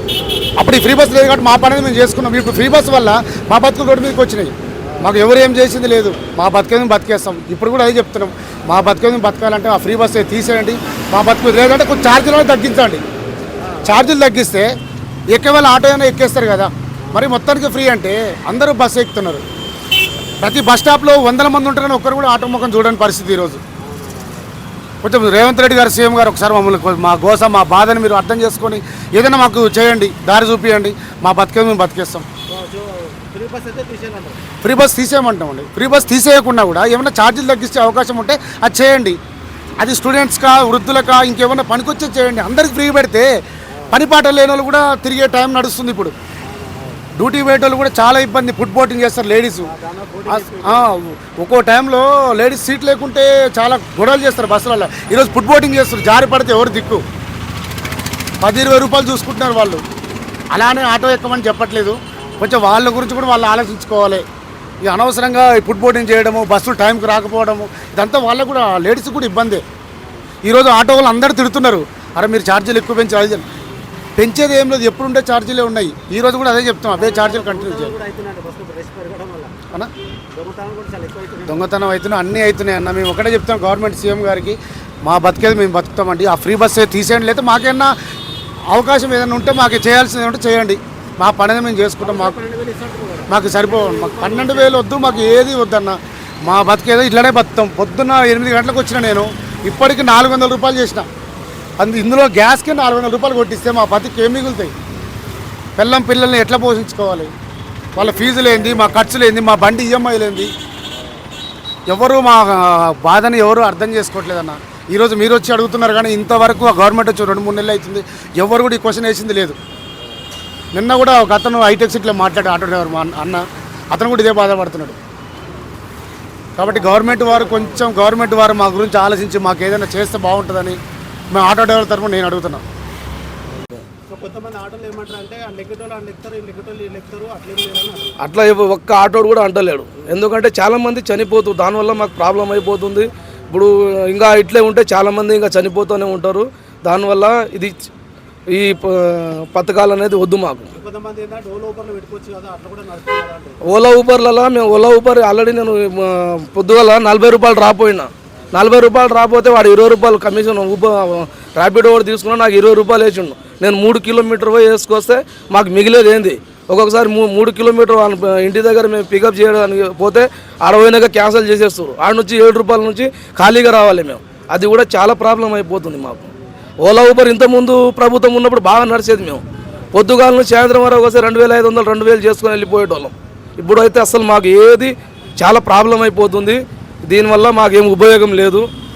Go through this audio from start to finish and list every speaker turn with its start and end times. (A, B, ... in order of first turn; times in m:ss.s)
0:00.1-0:00.5 A
0:00.6-0:13.0 B
0:04.8-0:05.2 A
0:13.6-0:14.2 A
0:13.8-0:14.7 B
0:15.3-0:19.4 B
0:17.0-0:17.3 A
0:20.4-0:23.6 B
0:23.8-0:24.5 A
0:25.0-0:32.2 B
0:32.5-0:34.4 A
0:34.6-0:39.2 B
0:39.8-0:43.3 B
0:43.7-0:44.0 A
0:43.9-0:46.1 B
0:46.4-0:47.0 A
0:47.2-0:49.7 B
0:49.6-0:50.8 A
0:50.3-0:57.0 B
0:55.1-0:55.4 A
0:58.4-0:59.8 B
1:00.5-1:04.2 B
1:02.2-1:02.6 A
1:04.8-1:09.6 B
1:10.0-1:10.2 A
1:10.4-1:13.4 B
1:14.2-1:17.9 B
1:16.9-1:19.5 A
1:20.3-1:21.7 A
1:21.5-1:27.9 B
1:28.7-1:32.4 B
1:32.0-1:35.5 A
1:33.3-1:41.1 B
1:41.8-1:44.7 B
1:45.8-1:47.3 B
1:47.9-1:49.1 A
1:48.0-1:50.5 B
1:51.9-1:59.6 B
2:00.7-2:05.0 B
2:06.6-2:10.8 B
2:06.6-2:07.8 A
2:11.3-2:12.6 B
2:14.1-2:18.2 A
2:18.2-2:27.7 C
2:28.5-2:30.7 C
2:30.7-2:33.6 A
2:33.7-2:56.3 C
2:56.8-3:08.7 C